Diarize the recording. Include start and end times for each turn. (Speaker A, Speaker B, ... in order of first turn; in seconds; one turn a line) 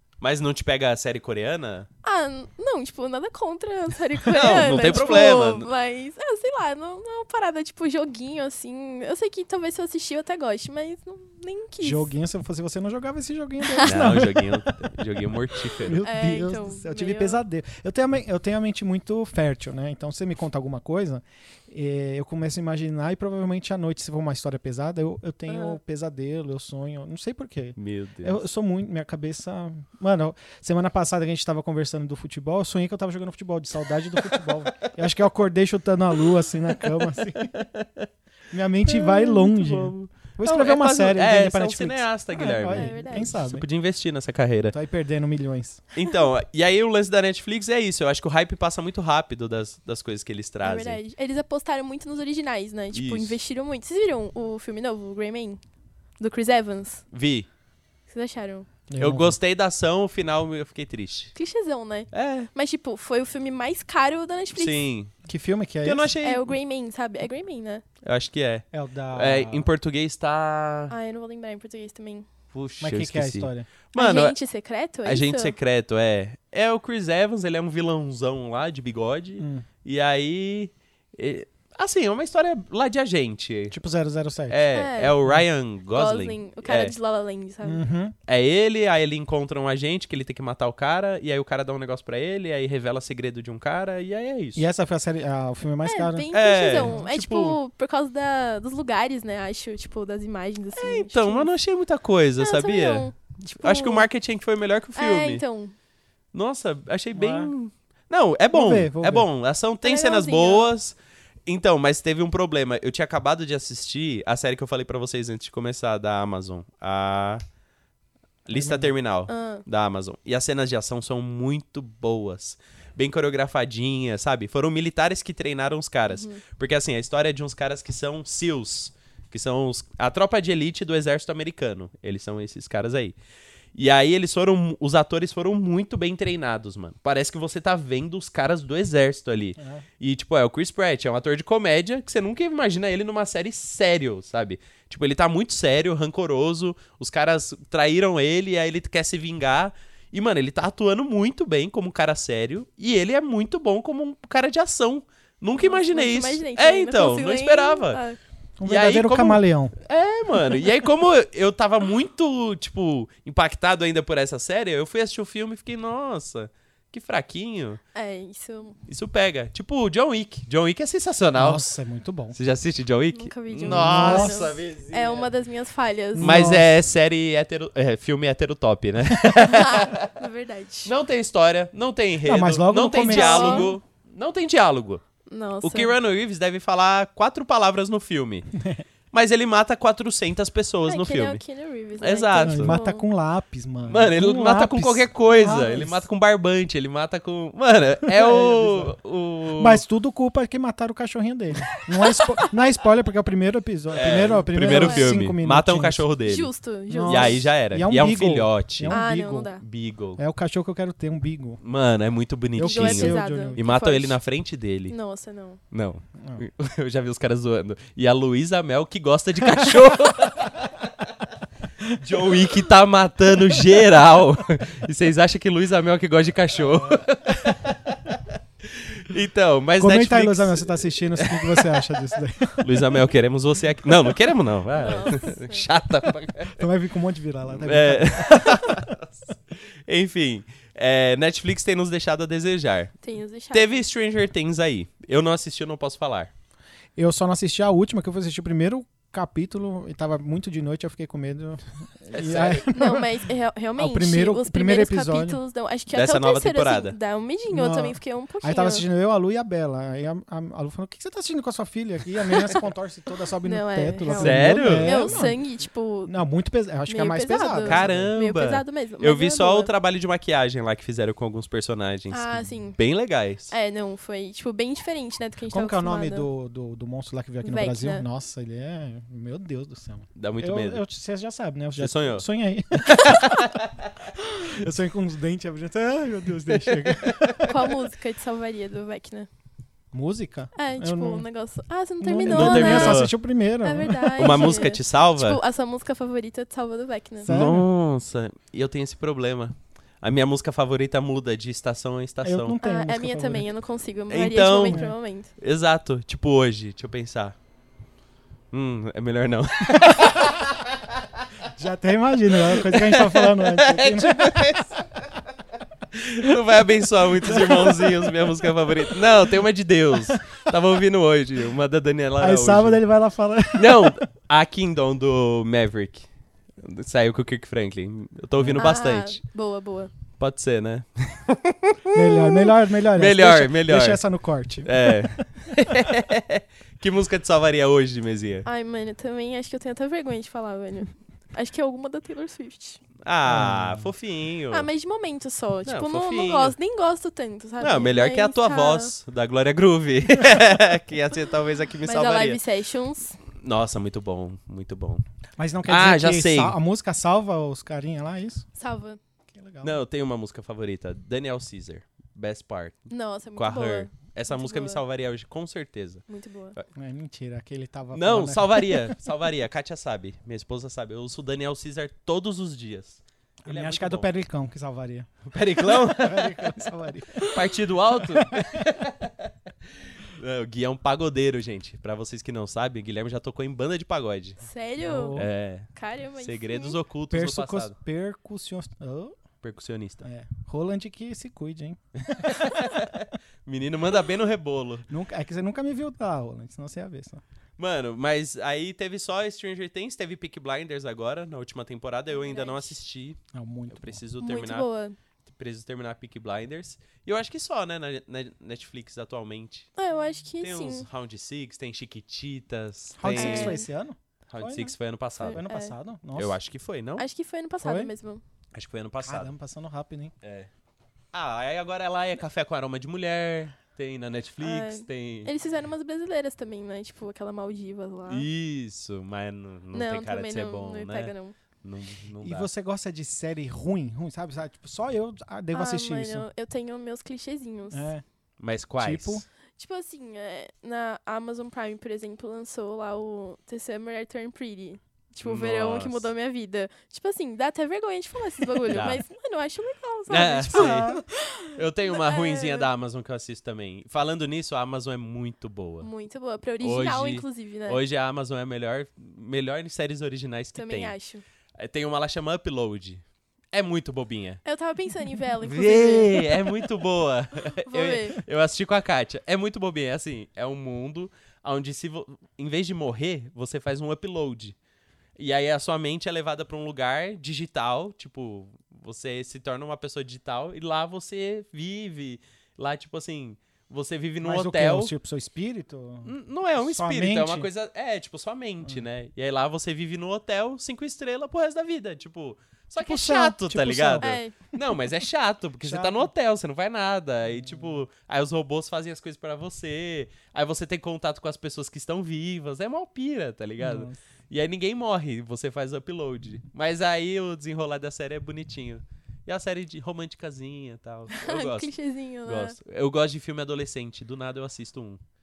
Speaker A: 0.2-1.9
Speaker B: 2.0-12.1
Speaker A: 4.3-5.7
Speaker C: 11.8-14.9
Speaker B: 13.6-14.1
Speaker A: 13.8-16.1
Speaker C: 15.7-37.5
Speaker B: 16.0-17.4
Speaker A: 27.8-28.4
Speaker A: 34.1-34.9
Speaker A: 36.7-38.1
Speaker C: 38.5-43.6
Speaker A: 38.9-44.8
Speaker B: 42.6-43.4
Speaker C: 44.7-45.8
Speaker A: 45.9-51.0
Speaker B: 50.6-55.6
Speaker A: 52.9-53.4
Speaker B: 56.2-57.0
Speaker A: 57.1-57.5
Speaker B: 58.1-58.7
Speaker C: 58.9-59.4
Speaker A: 59.0-61.3
Speaker B: 61.3-64.8
Speaker A: 62.1-62.5
Speaker A: 64.5-65.1
Speaker C: 65.2-66.1
Speaker A: 65.8-66.5
Speaker B: 66.2-67.8
Speaker A: 68.0-70.9
Speaker C: 68.7-69.7
Speaker B: 70.9-72.3
Speaker A: 72.5-74.3
Speaker C: 72.8-73.7
Speaker B: 73.9-75.5
Speaker A: 75.0-83.7
Speaker C: 79.4-79.7
Speaker C: 83.7-84.6
Speaker A: 84.5-86.9
Speaker B: 84.7-85.2
Speaker B: 85.8-87.8
Speaker C: 87.6-88.1
Speaker A: 88.3-94.6
Speaker C: 94.5-97.0
Speaker B: 95.8-101.5
Speaker A: 96.3-97.6
Speaker A: 100.7-105.4
Speaker B: 102.4-104.1
Speaker B: 105.0-105.7
Speaker A: 106.3-117.4
Speaker C: 107.1-107.5
Speaker C: 108.5-109.3
Speaker B: 109.8-110.7
Speaker A: 118.5-133.2
Speaker C: 118.5-118.9
Speaker B: 119.3-119.6
Speaker B: 126.1-126.4
Speaker A: 133.7-158.0
Speaker C: 139.6-139.8
Speaker B: 155.6-158.2
Speaker C: 158.6-159.7
Speaker A: 158.7-167.8
Speaker B: 167.9-168.8
Speaker A: 168.9-171.6
Speaker C: 171.3-172.3
Speaker A: 172.3-175.3
Speaker B: 173.1-176.5
Speaker C: 173.7-174.5
Speaker C: 176.1-176.7
Speaker A: 176.2-180.1
Speaker B: 179.4-180.9
Speaker A: 180.8-185.0
Speaker C: 182.2-183.8
Speaker B: 183.1-183.7
Speaker B: 185.3-185.9
Speaker A: 185.6-188.5
Speaker C: 188.5-188.8
Speaker A: 189.1-191.4
Speaker B: 190.8-193.0
Speaker A: 192.0-192.8
Speaker C: 192.4-196.1
Speaker A: 193.8-199.8
Speaker C: 198.1-198.9
Speaker C: 199.6-206.1
Speaker A: 203.9-206.5
Speaker B: 204.6-205.1
Speaker B: 206.2-207.5
Speaker C: 206.9-209.6
Speaker A: 207.0-209.0
Speaker B: 208.9-209.6
Speaker A: 209.6-210.2
Speaker C: 210.2-211.6
Speaker A: 211.6-214.9
Speaker C: 212.6-213.6
Speaker B: 212.6-214.2
Speaker B: 214.9-215.6
Speaker A: 215.7-221.1
Speaker A: 221.9-231.8
Speaker C: 226.7-227.5
Speaker C: 229.8-232.8
Speaker A: 232.6-236.6
Speaker B: 234.8-235.7
Speaker C: 236.5-238.9
Speaker A: 237.5-242.9
Speaker B: 243.0-243.8
Speaker A: 243.5-246.3
Speaker C: 246.9-253.2
Speaker A: 252.1-252.7
Speaker B: 252.7-258.8
Speaker C: 253.8-255.4
Speaker A: 255.9-257.0
Speaker C: 257.5-265.4
Speaker B: 263.4-266.1
Speaker A: 264.1-265.2
Speaker C: 266.1-268.1
Speaker B: 266.9-269.7
Speaker A: 267.6-273.5
Speaker B: 272.1-272.8
Speaker B: 273.5-276.3
Speaker C: 275.5-283.2
Speaker B: 277.4-278.0
Speaker A: 280.1-280.8
Speaker A: 281.8-282.2
Speaker A: 282.8-283.9
Speaker C: 284.5-287.8
Speaker A: 286.5-287.4
Speaker B: 287.4-289.3
Speaker C: 289.9-291.2
Speaker B: 290.5-293.1
Speaker C: 292.0-294.6
Speaker A: 292.2-293.1
Speaker B: 293.6-297.3
Speaker A: 294.2-295.4
Speaker C: 297.2-297.7
Speaker A: 297.2-302.6
Speaker C: 302.2-303.5
Speaker B: 302.6-305.3
Speaker A: 304.1-307.4
Speaker C: 304.6-304.9
Speaker A: 308.5-310.8
Speaker C: 309.7-310.2
Speaker C: 311.5-314.8
Speaker A: 312.5-314.9
Speaker A: 315.9-322.8
Speaker C: 317.1-319.3
Speaker C: 322.2-324.0
Speaker A: 323.5-329.2
Speaker C: 328.4-328.6
Speaker B: 328.6-329.9
Speaker A: 330.2-332.2
Speaker C: 331.9-335.5
Speaker A: 332.9-334.0
Speaker A: 334.6-338.4
Speaker B: 338.4-342.9
Speaker A: 343.0-344.7
Speaker C: 343.3-343.9
Speaker B: 344.5-348.9
Speaker A: 345.6-346.5
Speaker A: 347.6-352.4
Speaker B: 351.8-353.2
Speaker A: 353.2-355.0
Speaker C: 355.4-358.5
Speaker A: 355.7-356.6
Speaker B: 358.6-359.0
Speaker C: 359.3-359.8
Speaker A: 359.6-366.7
Speaker B: 362.9-364.8
Speaker B: 366.1-366.5
Speaker C: 366.7-369.0
Speaker A: 367.9-374.1
Speaker C: 373.4-377.5
Speaker A: 375.2-376.7
Speaker A: 377.2-384.4
Speaker C: 378.0-378.8
Speaker B: 384.4-386.8
Speaker C: 384.8-385.3
Speaker A: 385.1-387.8
Speaker C: 387.1-389.2
Speaker A: 389.4-390.1
Speaker C: 390.0-392.8
Speaker A: 392.1-394.9
Speaker C: 394.9-397.2
Speaker A: 397.6-404.7
Speaker B: 402.1-402.8
Speaker C: 403.3-404.0
Speaker B: 404.2-404.9
Speaker A: 405.2-409.7
Speaker B: 409.8-410.9
Speaker A: 410.4-413.6
Speaker C: 413.0-414.7
Speaker B: 413.0-413.6
Speaker A: 414.3-415.4
Speaker B: 415.2-415.7
Speaker C: 415.3-416.4
Speaker A: 416.1-417.0
Speaker B: 417.0-418.2
Speaker C: 417.6-417.9
Speaker A: 418.5-419.3
Speaker C: 419.0-420.1
Speaker A: 420.2-420.5
Speaker A: 421.1-425.3
Speaker B: 424.4-428.3
Speaker A: 428.1-432.5
Speaker B: 429.7-431.3
Speaker C: 432.2-436.3
Speaker B: 435.5-437.9
Speaker C: 437.7-438.0
Speaker A: 438.4-439.2
Speaker C: 438.8-439.2
Speaker B: 439.6-452.7
Speaker A: 445.2-446.1
Speaker A: 448.7-449.0
Speaker A: 450.1-450.9
Speaker C: 450.5-451.0
Speaker A: 451.5-455.9
Speaker B: 455.8-457.8
Speaker A: 456.6-460.9
Speaker B: 460.6-461.2
Speaker A: 461.6-464.4
Speaker B: 464.4-466.5
Speaker A: 465.4-474.6
Speaker B: 467.6-468.2
Speaker A: 475.2-484.9
Speaker C: 484.2-487.5
Speaker A: 486.0-511.7
Speaker C: 492.8-494.2
Speaker B: 494.0-494.4
Speaker C: 495.6-496.1
Speaker C: 497.3-497.8
Speaker C: 503.6-504.0
Speaker B: 511.1-512.5
Speaker A: 512.2-515.0